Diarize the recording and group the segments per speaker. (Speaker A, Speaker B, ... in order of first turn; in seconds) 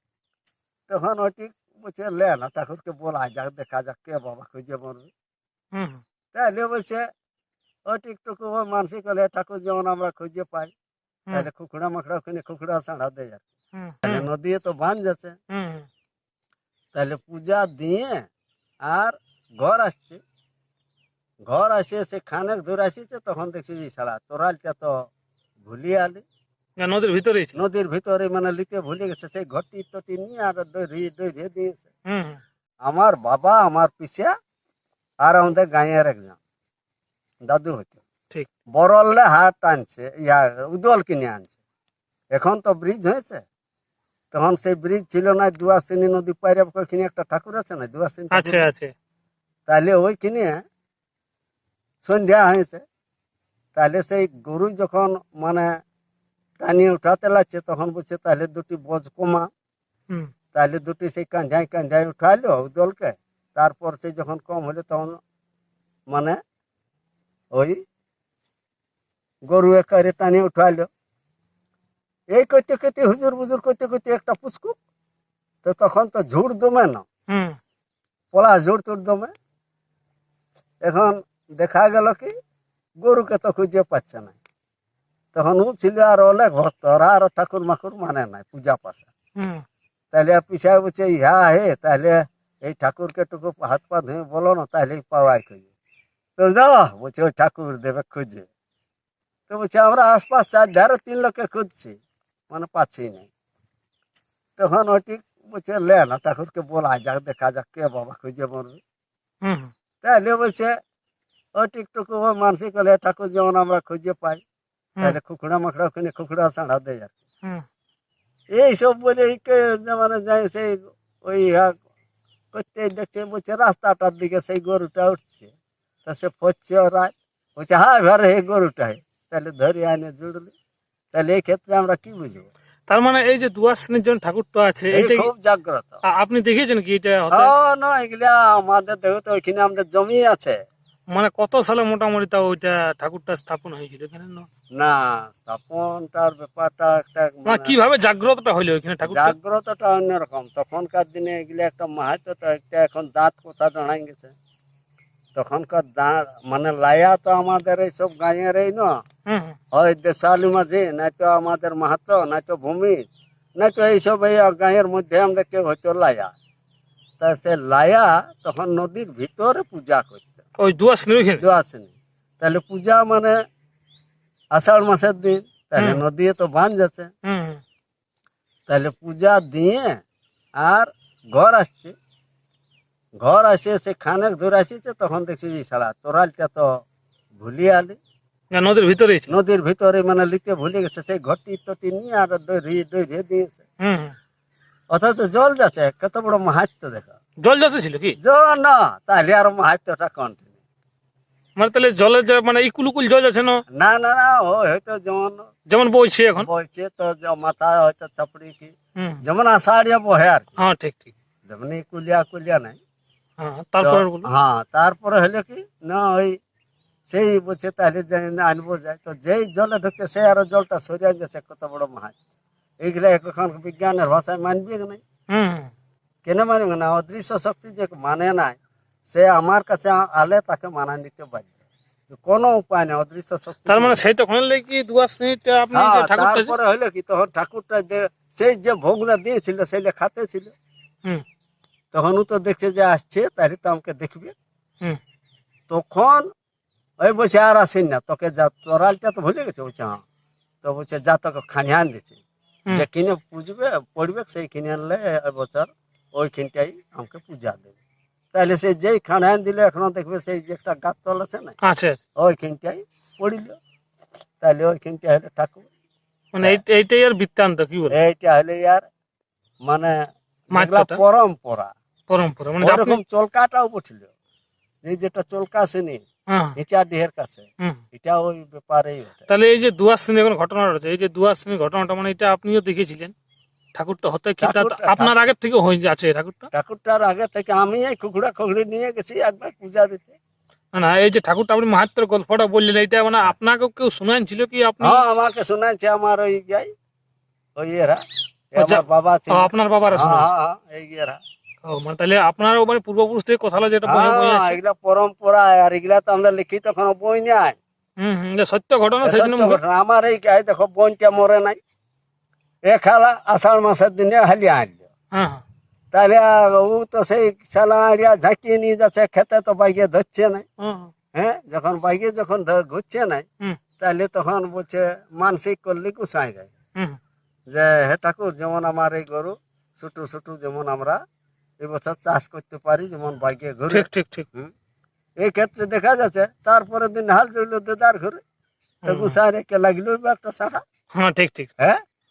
Speaker A: 0.9-5.1, 6.3-7.0, 7.9-10.7, 11.3-13.4, 14.0-15.4, 16.9-18.2, 18.8-20.2, 21.4-25.1, 25.6-26.2, 27.5-31.9, 32.8-34.3, 35.2-36.4, 37.5-38.0, 38.7-41.5, 42.3-43.4, 44.3-48.6, 49.7-50.6, 52.0-52.8, 53.7-55.7, 56.6-59.5, 60.5-65.2, 66.1-66.4, 67.5-67.8, 69.5-70.9, 72.3-74.7, 75.6-77.0, 78.3-79.3, 80.8-82.3, 83.0-84.3, 85.3-89.1, 90.1-95.7, 96.4-98.5, 99.5-102.0, 102.5-103.3, 104.6-108.8, 110.0-110.7, 111.6-114.4, 115.0-117.1, 118.5-121.7, 122.5-125.5, 126.0-130.5, 131.1-132.5, 134.9-136.0, 137.3-140.6, 144.8-147.7, 149.0-154.3, 155.3-159.0, 159.7-163.0, 163.6-166.3, 167.2-170.4, 171.4-173.3, 174.5-177.1, 178.7-180.0, 180.6-181.9, 183.2-186.7, 187.4-188.0, 189.3-193.6, 194.9-197.2, 198.2-200.5, 203.7-205.5, 206.4-210.5, 211.4-212.8, 213.8-216.4, 217.1-222.2, 222.8-225.0, 226.2-231.5, 232.1-234.0, 235.7-240.5, 241.9-244.3, 245.7-246.3, 247.0-250.0, 250.6-252.2, 252.7-257.7, 258.3-261.6, 262.2-263.6, 264.4-265.7, 267.9-268.8, 269.6-269.9, 270.5-271.7, 272.6-274.1, 274.8-276.0, 276.6-279.2, 284.4-285.1, 286.5-290.1, 294.8-296.7, 297.6-298.0, 298.5-301.2, 303.8-307.6, 309.0-311.6, 312.6-314.9, 315.9-320.4, 321.1-323.2, 323.8-326.5, 327.5-331.0, 331.6-334.5, 335.2-338.2, 338.9-340.6
Speaker B: 5.7-6.0, 13.8-14.3, 15.5-15.8, 26.8-27.6, 32.1-32.4, 48.3-48.9, 77.3-77.6, 89.4-89.6, 109.4-109.7, 132.9-135.3, 136.1-137.5, 141.1-144.5, 147.4-149.3, 159.3-159.6, 170.6-171.4, 175.8-176.0, 177.2-177.6, 188.5-189.3, 193.8-194.1, 197.4-198.2, 201.6-203.6, 205.7-206.5, 210.6-211.1, 213.4-214.3, 225.3-225.7, 233.7-236.5, 261.6-262.0, 266.3-267.9, 270.5-271.0, 272.1-273.0, 276.3-276.6, 279.3-283.1, 283.7-286.5, 290.7-295.0, 298.6-300.3, 301.6-304.6, 308.0-309.6, 315.1-315.4, 320.6-320.9, 333.7-334.3, 338.8-339.1, 340.9-341.5